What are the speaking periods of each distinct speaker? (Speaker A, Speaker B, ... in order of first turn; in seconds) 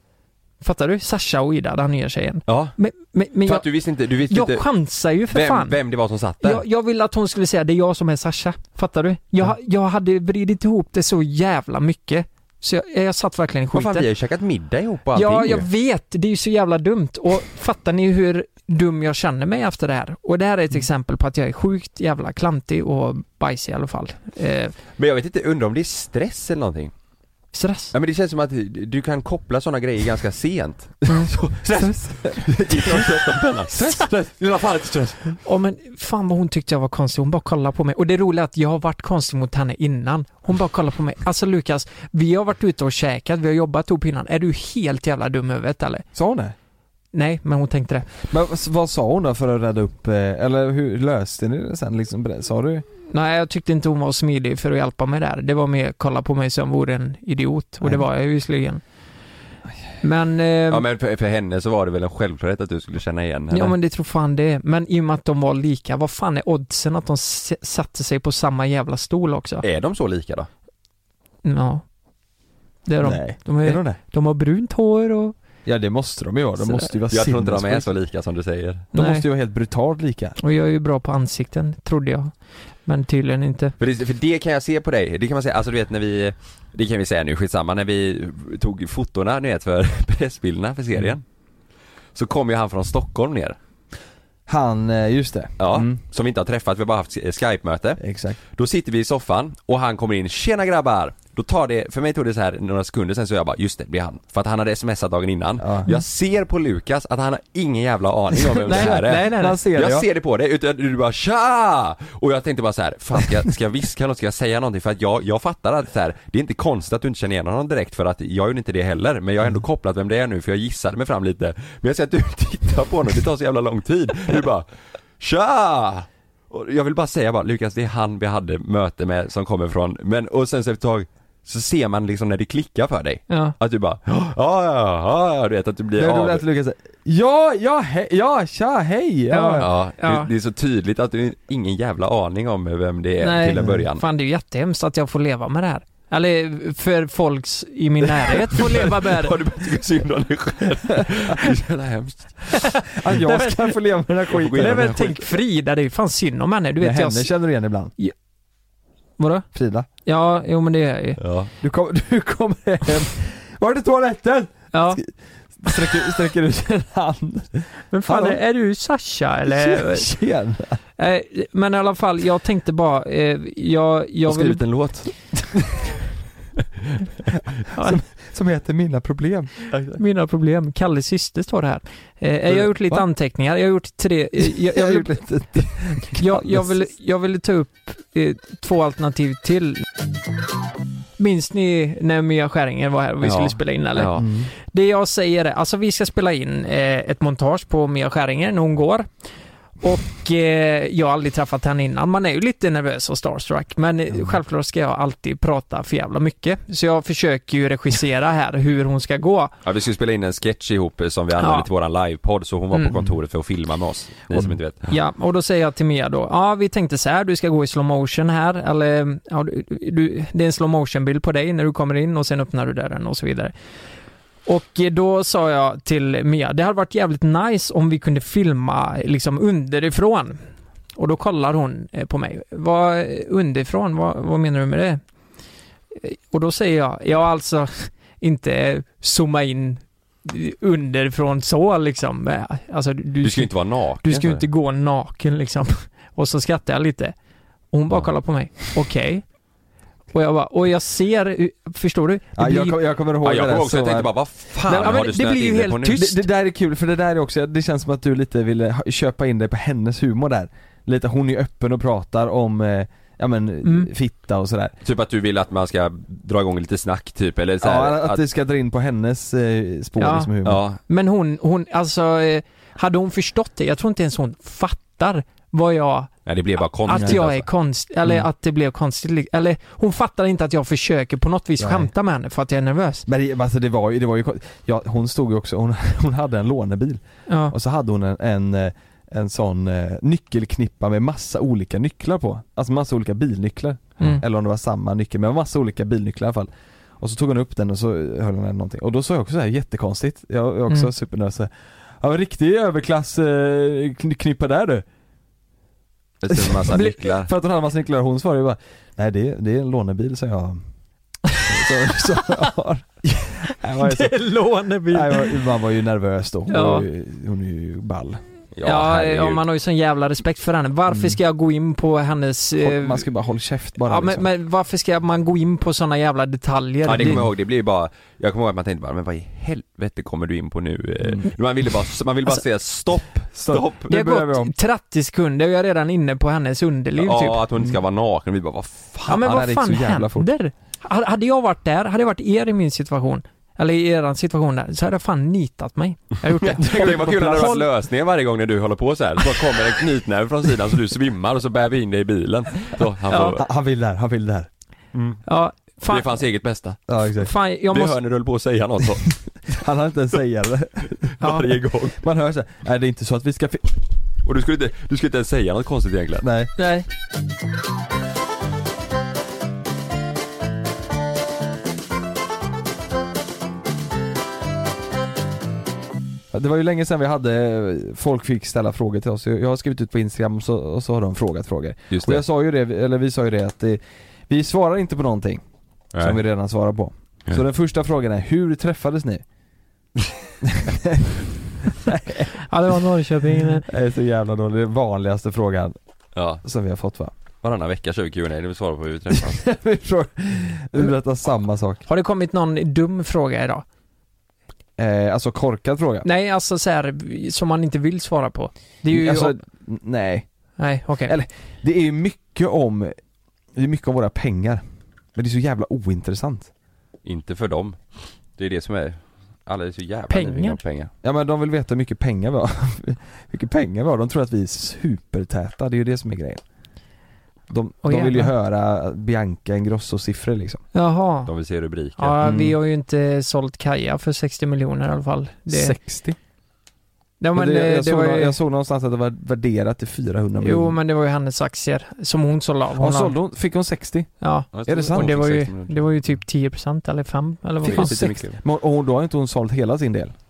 Speaker A: 0.6-3.6, 4.3-5.8, 6.4-14.1, 15.1-24.8, 27.5-27.9, 35.5-46.0, 47.1-48.1, 53.1-58.8, 60.0-60.8, 63.5-69.6, 71.4-71.8, 72.9-75.3, 76.6-76.9, 78.9-79.2, 80.4-82.3, 82.9-83.7, 108.7-109.6, 133.3-133.6, 139.3-140.3, 143.2-149.4, 153.2-153.8, 154.6-157.3, 159.2-159.5, 160.1-161.2, 164.7-165.0, 167.9-170.1, 171.0-174.6, 177.7-178.0, 179.9-185.2, 186.2-189.8, 191.2-199.1, 199.8-209.5, 211.4-211.7, 214.9-223.5, 224.5-230.4, 231.0-235.0, 236.0-247.2, 247.7-249.3, 250.1-252.8, 254.7-256.2, 263.6-263.9, 270.0-270.3, 270.9-276.1, 276.9-283.1, 287.3-287.6, 313.8-315.3, 316.5-316.9, 318.6-323.1, 323.8-327.2, 333.9-337.4, 339.1-347.6, 353.1-353.4, 355.3-356.1, 357.2-358.0, 361.2-361.5, 366.6-366.9, 392.4-393.7, 401.9-403.6, 406.0-409.4, 410.6-411.1, 420.1-420.6, 427.8-428.3, 430.7-431.3, 432.0-435.8, 437.2-438.4, 440.4-443.2, 444.2-448.2
Speaker B: 2.5-2.8, 3.5-4.7, 5.3-6.6, 13.7-15.7, 25.0-26.9, 27.9-35.4, 60.7-63.8, 69.6-70.5, 77.1-78.9, 83.8-91.2, 92.2-93.6, 95.6-98.0, 98.5-124.7, 125.2-136.4, 139.6-144.0, 148.6-152.5, 154.3-155.2, 161.2-161.5, 174.3-175.1, 179.7-180.0, 193.2-194.2, 209.6-214.9, 243.2-244.4, 253.2-256.1, 264.8-268.2, 270.4-270.8, 276.3-277.5, 306.2-307.3, 318.6-319.4, 326.9-333.9, 337.0-339.2, 346.4-353.4, 354.9-355.2, 355.9-356.8, 357.7-359.2, 361.2-362.0, 364.2-366.3, 381.9-382.2, 385.9-386.2, 396.1-396.4, 397.4-399.4, 417.1-417.8, 418.4-420.9, 431.3-432.2, 444.5-446.0, 447.6-448.4
Speaker C: 31.8-34.1, 46.1-46.5, 48.3-52.9, 73.0-74.0, 75.7-77.9, 78.9-80.4, 94.5-96.0, 98.0-98.4, 105.6-105.9, 108.6-110.1, 136.0-139.7, 152.9-155.2, 156.8-157.9, 159.5-159.9, 161.6-165.1, 165.6-168.4, 169.5-170.8, 177.8-179.5, 182.8-183.1, 184.5-186.7, 194.2-194.5, 252.4-254.1, 254.7-255.0, 255.9-264.8, 267.6-270.6, 276.9-277.2, 281.6-281.9, 283.1-296.5, 297.0-304.9, 306.3-310.6, 311.5-314.2, 314.9-318.2, 320.9-321.2, 322.6-324.3, 327.0-327.3, 333.4-334.5, 339.1-340.3, 346.6-347.6, 353.3-354.5, 356.9-357.3, 359.5-361.0, 361.9-363.7, 366.2-366.5, 376.3-385.4, 386.0-389.2, 390.4-391.1, 391.9-392.3, 393.7-395.8, 396.4-397.1, 399.1-401.8, 404.8-406.1, 408.9-410.3, 411.1-412.9, 413.5-414.6, 415.1-416.5, 421.0-426.4, 427.5-430.6, 432.2-432.6, 435.5-436.2, 437.4-440.8, 442.8-444.1, 444.7-445.2, 447.6-450.1